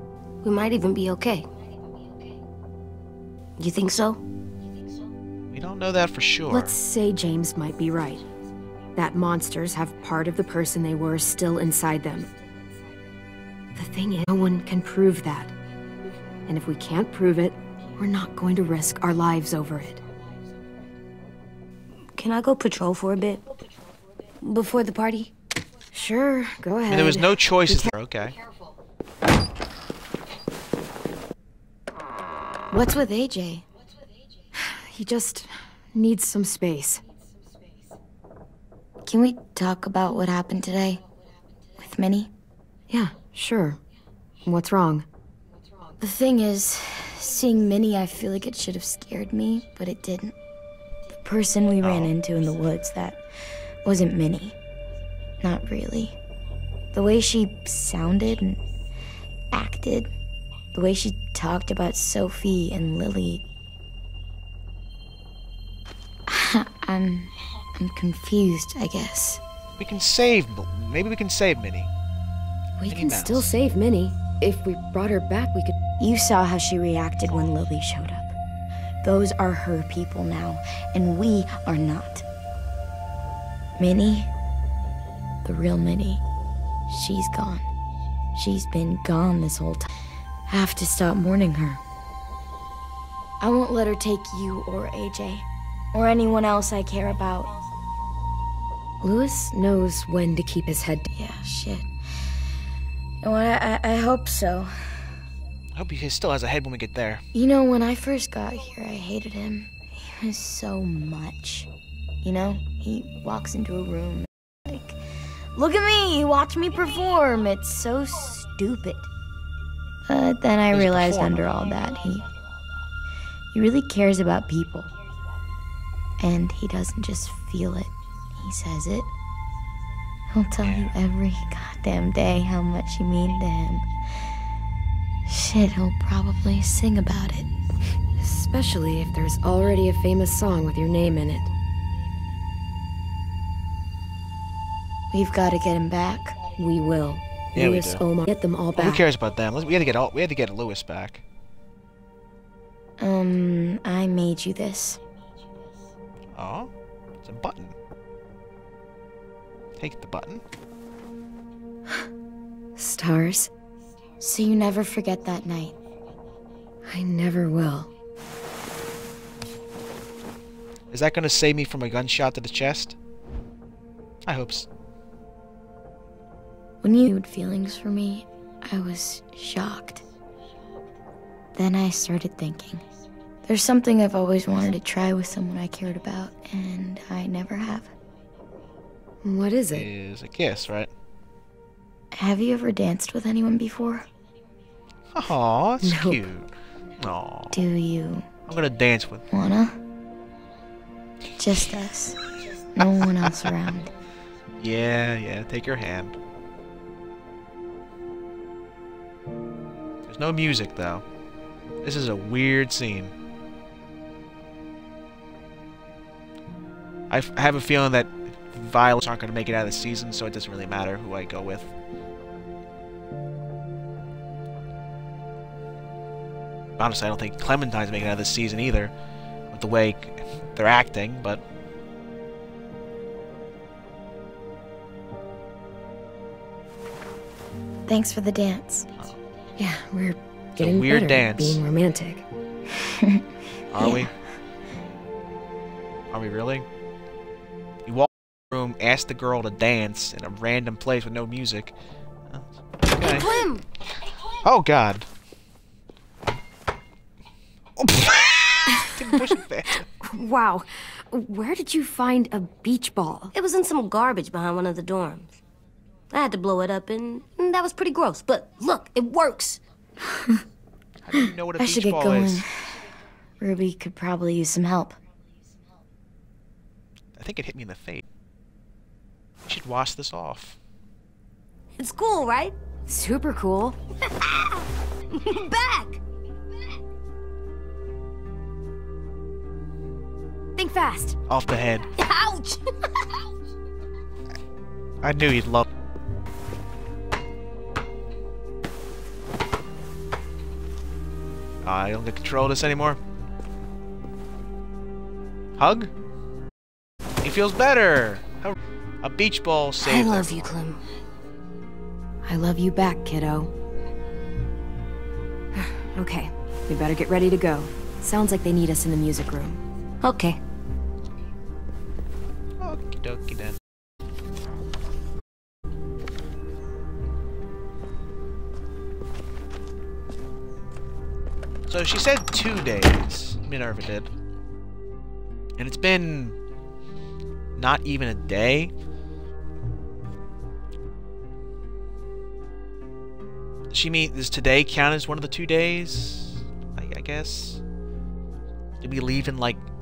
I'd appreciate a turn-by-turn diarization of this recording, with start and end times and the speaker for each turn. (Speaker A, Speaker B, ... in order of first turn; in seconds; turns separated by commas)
Speaker A: 0.4-1.5, Speaker A: 3.6-4.2, Speaker B: 5.5-6.7, Speaker C: 6.5-8.2, Speaker C: 9.0-12.3, Speaker C: 13.8-15.5, Speaker C: 16.5-20.0, Speaker A: 22.1-23.4, Speaker A: 24.4-25.3, Speaker C: 25.9-27.9, Speaker B: 26.9-28.4, Speaker C: 32.7-33.6, Speaker C: 34.5-37.0, Speaker D: 39.1-41.0, Speaker D: 41.8-42.3, Speaker C: 42.9-43.8, Speaker C: 44.5-45.1, Speaker D: 46.0-50.4, Speaker D: 51.2-53.2, Speaker B: 51.8-52.1, Speaker D: 53.8-54.6, Speaker D: 55.4-56.2, Speaker D: 56.9-58.6, Speaker D: 59.5-60.1, Speaker D: 60.7-63.5, Speaker D: 66.3-69.4, Speaker B: 69.8-71.9, Speaker C: 72.8-75.8, Speaker B: 72.9-73.5, Speaker D: 76.0-78.3, Speaker D: 79.0-82.2, Speaker D: 83.8-84.3, Speaker D: 85.4-86.2, Speaker D: 86.9-87.6, Speaker D: 88.3-89.9, Speaker D: 90.5-91.8, Speaker D: 93.4-97.5, Speaker C: 99.0-101.1, Speaker D: 101.2-101.9, Speaker D: 103.2-105.2, Speaker B: 105.8-107.2, Speaker D: 107.3-111.7, Speaker D: 112.2-115.0, Speaker D: 115.5-119.1, Speaker D: 120.1-122.3, Speaker B: 120.7-121.5, Speaker D: 123.5-125.0, Speaker D: 126.2-129.1, Speaker D: 130.3-133.9, Speaker B: 130.6-130.9, Speaker D: 135.3-137.5, Speaker C: 138.2-141.5, Speaker D: 145.1-146.4, Speaker C: 146.6-149.0, Speaker B: 147.6-148.0, Speaker B: 148.8-151.2, Speaker D: 153.0-155.0, Speaker B: 156.3-156.7, Speaker B: 157.2-157.8, Speaker B: 159.8-160.4, Speaker C: 162.8-163.5, Speaker D: 164.2-165.8, Speaker C: 166.9-167.9, Speaker B: 170.9-173.0, Speaker B: 174.3-174.7, Speaker D: 176.8-180.1, Speaker D: 181.6-182.8, Speaker D: 183.5-187.9, Speaker C: 189.2-189.9, Speaker B: 189.7-190.9, Speaker D: 192.1-194.1, Speaker B: 195.1-197.7, Speaker C: 195.8-196.2, Speaker D: 197.5-198.3, Speaker B: 198.5-199.3, Speaker D: 199.3-199.8, Speaker D: 201.4-202.2, Speaker D: 202.8-203.9, Speaker B: 203.2-203.6, Speaker B: 204.6-206.3, Speaker B: 210.1-211.0, Speaker B: 211.8-213.1, Speaker B: 217.1-221.7, Speaker B: 226.8-228.9, Speaker B: 229.5-231.4, Speaker D: 237.9-238.9, Speaker C: 239.6-242.2, Speaker B: 240.6-241.6, Speaker D: 242.8-243.2, Speaker B: 243.7-244.1, Speaker D: 243.8-244.1, Speaker B: 246.1-246.7, Speaker B: 247.9-251.7, Speaker B: 252.3-253.3, Speaker A: 253.1-253.7, Speaker B: 254.4-255.1, Speaker B: 258.5-259.9, Speaker C: 260.0-263.3, Speaker A: 263.3-265.4, Speaker A: 266.1-269.6, Speaker D: 270.1-270.4, Speaker B: 271.0-272.5, Speaker D: 271.2-275.0, Speaker B: 277.2-278.0, Speaker B: 279.5-280.6, Speaker A: 281.8-282.6, Speaker C: 282.9-283.8, Speaker A: 284.1-286.0, Speaker C: 290.6-291.2, Speaker B: 291.3-291.9, Speaker A: 291.9-293.1, Speaker B: 295.0-295.7, Speaker B: 301.6-303.0, Speaker B: 305.6-305.9, Speaker B: 307.2-310.5, Speaker A: 309.8-310.8, Speaker C: 312.2-313.5, Speaker C: 315.8-319.6, Speaker A: 320.0-320.4, Speaker B: 322.6-323.6, Speaker B: 331.7-334.1, Speaker B: 335.6-336.4, Speaker B: 337.6-338.7, Speaker B: 343.7-347.6, Speaker B: 348.8-349.6